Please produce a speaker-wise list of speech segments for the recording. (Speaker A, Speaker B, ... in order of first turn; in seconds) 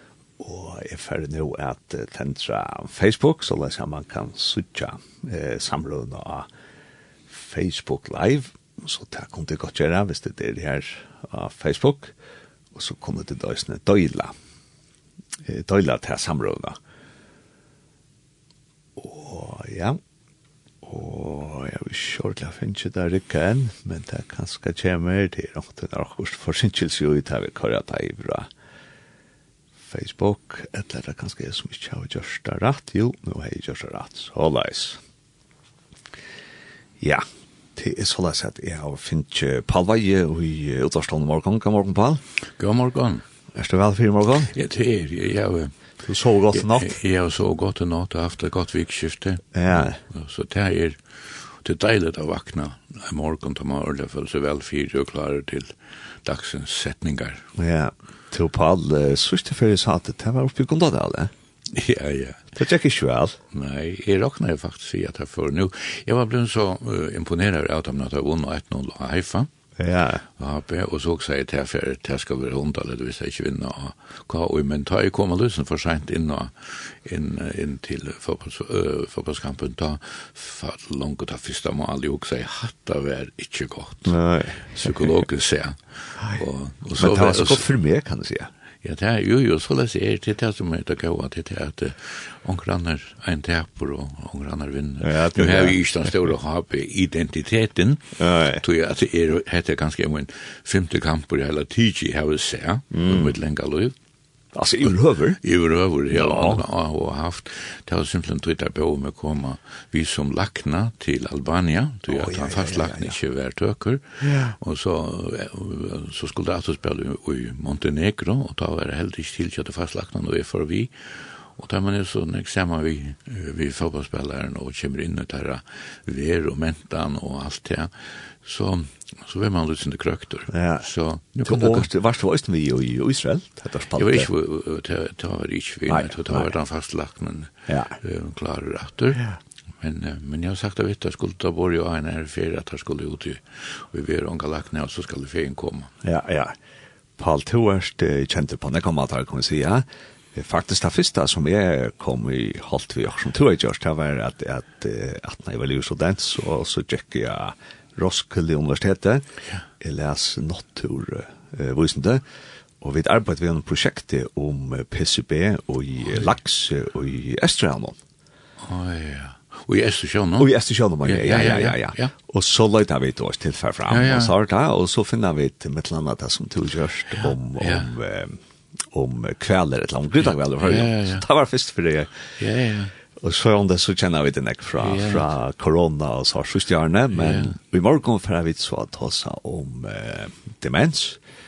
Speaker A: 0.4-6.5, 7.3-12.1, 12.7-14.3, 15.4-16.8, 18.9-20.0, 20.8-28.5, 29.9-35.0, 37.8-42.2, 43.5-44.5, 46.0-47.0, 49.5-50.0, 57.5-61.3, 62.5-63.4, 69.8-70.2, 84.0-85.0, 87.0-88.5, 95.0-95.8, 98.2-98.6, 102.9-103.3, 104.5-105.4, 106.1-106.6, 112.1-113.2, 114.2-114.5, 130.5-130.9, 131.4-134.3, 135.9-136.5, 137.7-138.0, 146.0-146.5, 147.2-159.2, 159.8-162.2, 162.8-168.0, 170.4-178.4, 178.9-182.3, 183.2-191.2
Speaker B: 42.6-43.2, 44.5-45.7, 46.5-57.5, 61.7-62.5, 63.5-69.5, 70.3-87.7, 88.8-103.9, 104.8-131.9, 133.9-139.2, 139.8-145.9, 168.6-170.5, 171.0-172.1, 173.9-174.3, 177.1-177.9, 180.6-181.2, 182.4-182.9, 184.8-185.3, 187.1-187.6